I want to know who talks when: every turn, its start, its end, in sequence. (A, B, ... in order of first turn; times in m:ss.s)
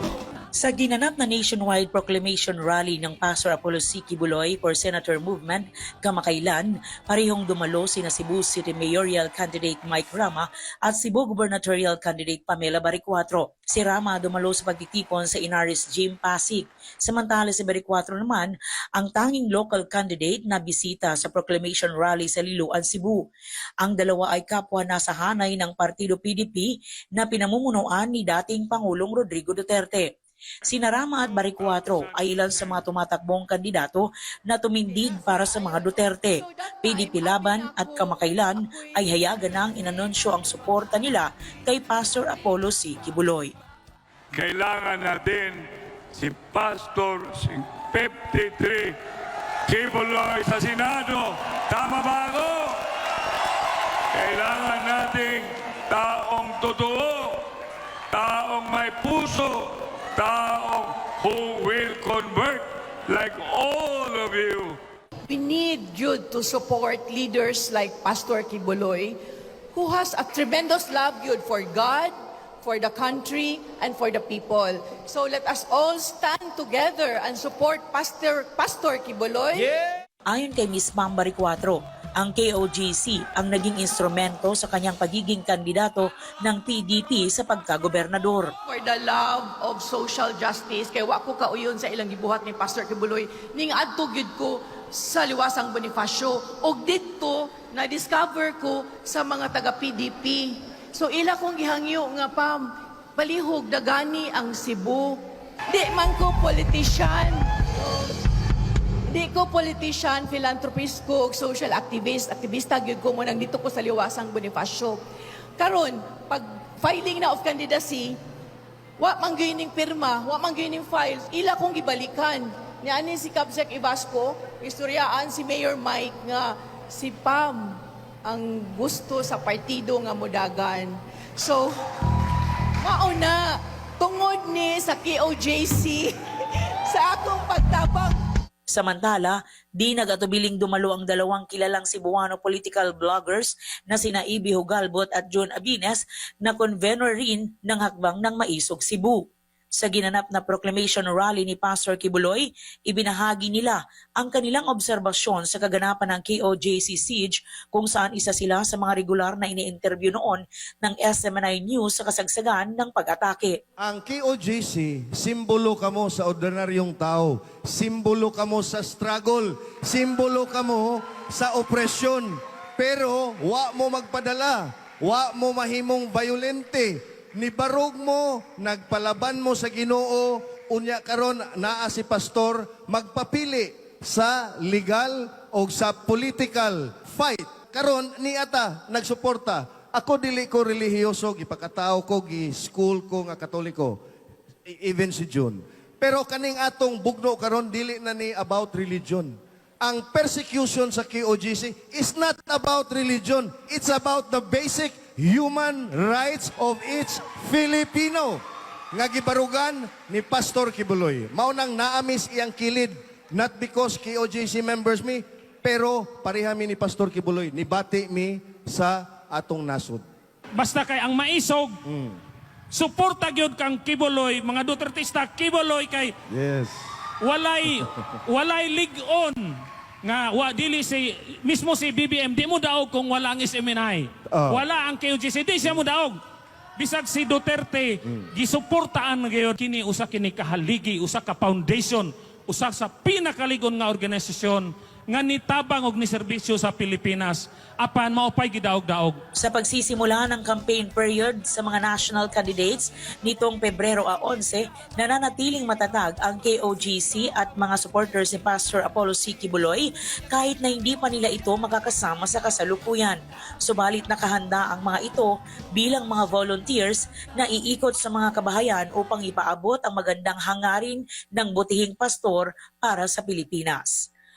0:00.6-0:23.3 A
0:23.8-0:30.1 A
0:30.7-0:43.5 A
0:34.9-0:39.2 B
0:44.3-0:49.0 C
0:49.6-0:52.8 C
0:54.1-0:57.5 C
0:58.1-1:04.8 C
1:05.3-1:09.2 B
1:09.7-1:19.7 B
1:20.3-1:28.5 A
1:28.7-1:47.5 B
1:49.1-1:55.0 B
1:55.6-1:58.2 B
1:59.0-2:11.8 B
2:12.8-2:16.2 B
2:16.8-2:18.2 B
2:18.7-2:29.2 A
2:29.8-2:43.6 A
2:43.8-3:14.0 D
3:14.7-3:40.0 D
3:40.6-3:41.8 E
3:41.8-3:42.2 D
3:42.7-3:46.1 E
3:46.3-3:46.9 D
3:47.2-3:49.5 E
3:50.0-3:56.2 E
3:54.3-3:54.6 D
3:56.8-4:09.2 E
4:09.3-4:34.1 A